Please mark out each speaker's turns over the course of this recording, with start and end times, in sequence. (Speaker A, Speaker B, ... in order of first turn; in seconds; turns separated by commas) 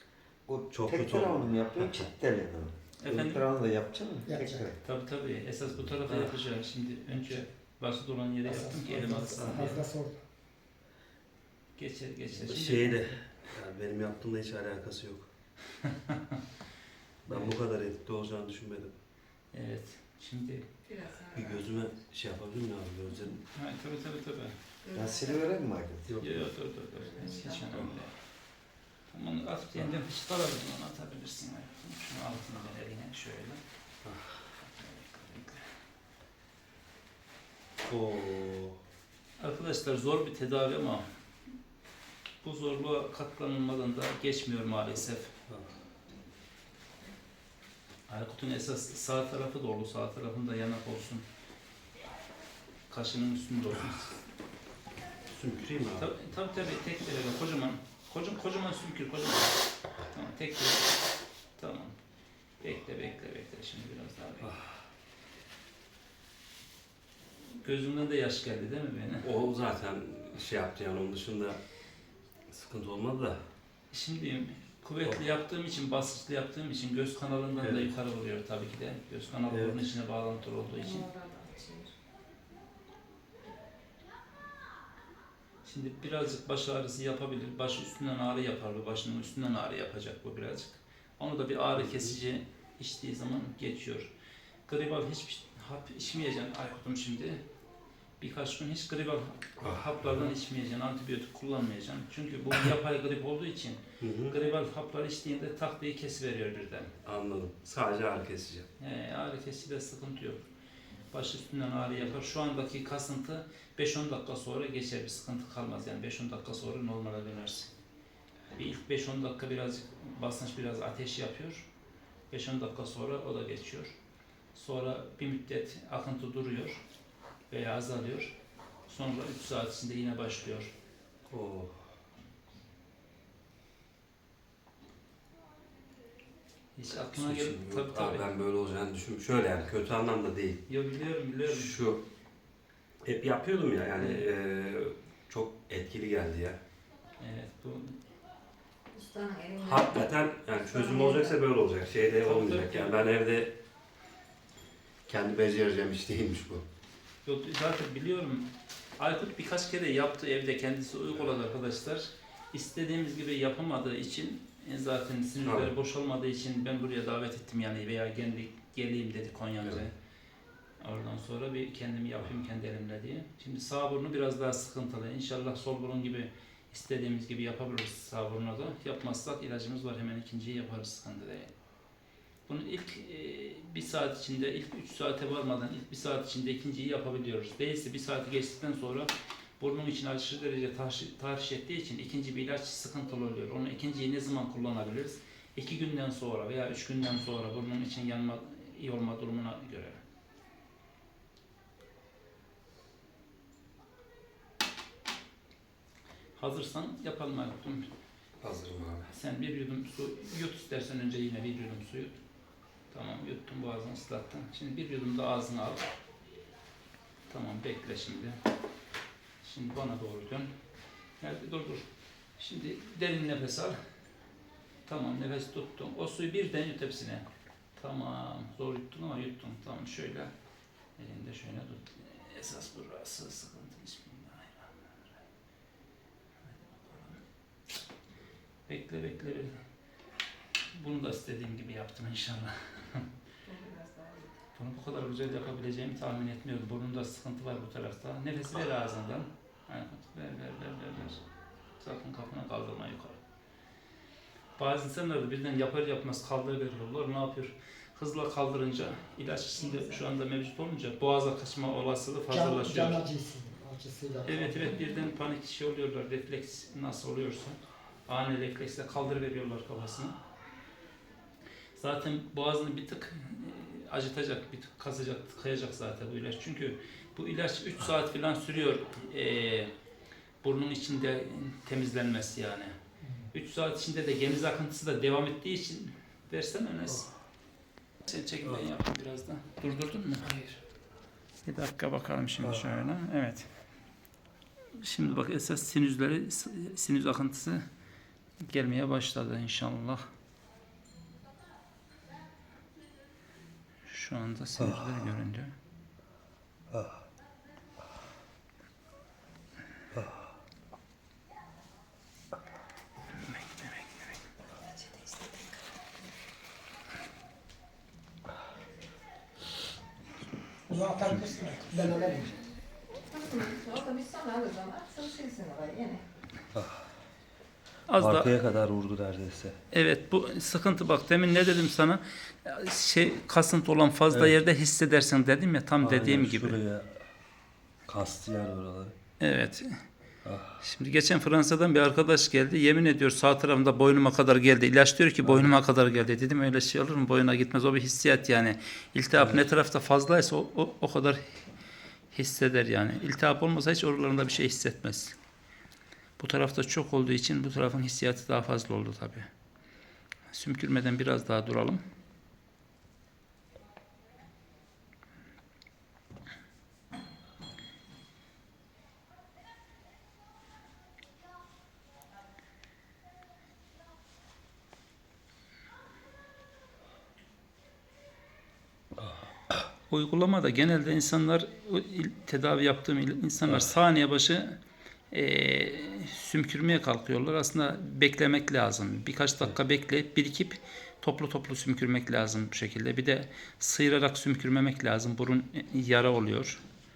Speaker A: 0.5-4.8, Speaker B: 0.7-2.1, Speaker C: 3.0-3.5, Speaker D: 4.2-4.7, Speaker C: 4.8-9.9, Speaker B: 6.0-6.4, Speaker D: 8.4-10.2, Speaker C: 11.8-13.2, Speaker B: 12.3-15.3, Speaker C: 15.8-16.4, Speaker B: 17.2-18.9, Speaker C: 17.3-17.5, Speaker C: 19.5-20.7, Speaker E: 20.8-21.9, Speaker B: 21.3-23.4, Speaker C: 23.5-24.6, Speaker E: 24.8-25.4, Speaker A: 24.9-26.3, Speaker C: 26.2-28.2, Speaker E: 27.0-27.9, Speaker C: 29.1-33.6, Speaker B: 34.0-34.4, Speaker C: 34.5-35.7, Speaker B: 37.8-38.8, Speaker C: 39.4-41.1, Speaker C: 42.4-45.3, Speaker C: 48.1-51.2, Speaker C: 52.9-54.2, Speaker B: 55.3-56.1, Speaker C: 56.0-59.6, Speaker C: 60.1-61.0, Speaker C: 61.5-62.0, Speaker C: 62.6-64.5, Speaker B: 64.4-64.7, Speaker C: 67.6-69.3, Speaker B: 69.2-71.6, Speaker B: 72.5-73.4, Speaker C: 73.9-81.1, Speaker B: 77.6-77.9, Speaker B: 79.5-79.8, Speaker E: 80.7-81.9, Speaker C: 85.6-94.1, Speaker B: 91.8-92.1, Speaker C: 94.7-97.4, Speaker C: 98.2-106.9, Speaker B: 99.6-100.3, Speaker B: 104.0-104.3, Speaker B: 107.0-108.7, Speaker C: 108.8-110.5, Speaker C: 111.1-117.7, Speaker C: 118.5-121.7, Speaker C: 122.3-124.0, Speaker C: 124.5-126.8, Speaker C: 127.5-128.4, Speaker C: 128.9-130.7, Speaker B: 131.3-131.7, Speaker C: 136.7-138.3, Speaker B: 137.0-140.6, Speaker C: 140.7-141.8, Speaker B: 141.4-142.0, Speaker B: 143.0-146.6, Speaker C: 144.0-144.2, Speaker C: 147.2-148.0, Speaker E: 148.9-151.4, Speaker B: 149.6-153.5, Speaker C: 152.2-153.0, Speaker B: 155.1-156.6, Speaker C: 157.2-169.9, Speaker B: 165.4-165.7, Speaker C: 170.8-181.5, Speaker C: 182.5-200.0, Speaker C: 206.3-207.9, Speaker B: 208.4-209.1, Speaker C: 209.1-212.2, Speaker C: 212.9-215.8, Speaker C: 217.3-218.4, Speaker C: 219.4-220.5, Speaker C: 221.2-223.8, Speaker C: 224.8-227.2, Speaker C: 227.8-230.3, Speaker C: 231.0-235.2, Speaker C: 236.4-237.2, Speaker C: 238.7-239.6, Speaker C: 240.7-243.1, Speaker E: 243.4-244.4, Speaker C: 244.5-251.2, Speaker C: 251.8-253.2, Speaker C: 254.6-263.0, Speaker D: 262.3-264.8, Speaker C: 264.2-270.2, Speaker C: 271.8-279.7, Speaker C: 280.4-282.7, Speaker D: 283.0-283.3, Speaker C: 283.3-287.1, Speaker C: 288.0-290.5, Speaker C: 291.4-293.5, Speaker B: 292.4-292.8, Speaker C: 294.7-297.6, Speaker C: 298.4-300.0, Speaker C: 303.8-305.5, Speaker B: 304.6-305.0, Speaker B: 306.7-307.0, Speaker B: 309.9-310.2, Speaker C: 313.2-313.9, Speaker E: 314.6-315.6, Speaker D: 320.7-322.4, Speaker B: 321.0-321.4, Speaker E: 323.1-326.1, Speaker B: 326.5-326.9, Speaker C: 327.9-328.4, Speaker B: 328.0-329.6, Speaker C: 329.7-336.6, Speaker B: 335.8-337.0, Speaker B: 337.9-338.9, Speaker C: 339.2-339.8, Speaker B: 340.2-340.6, Speaker C: 340.6-351.2, Speaker B: 345.2-345.6, Speaker B: 349.1-349.4, Speaker C: 352.1-355.2, Speaker C: 356.2-359.3, Speaker C: 360.3-361.8, Speaker C: 379.9-384.6, Speaker C: 385.1-396.6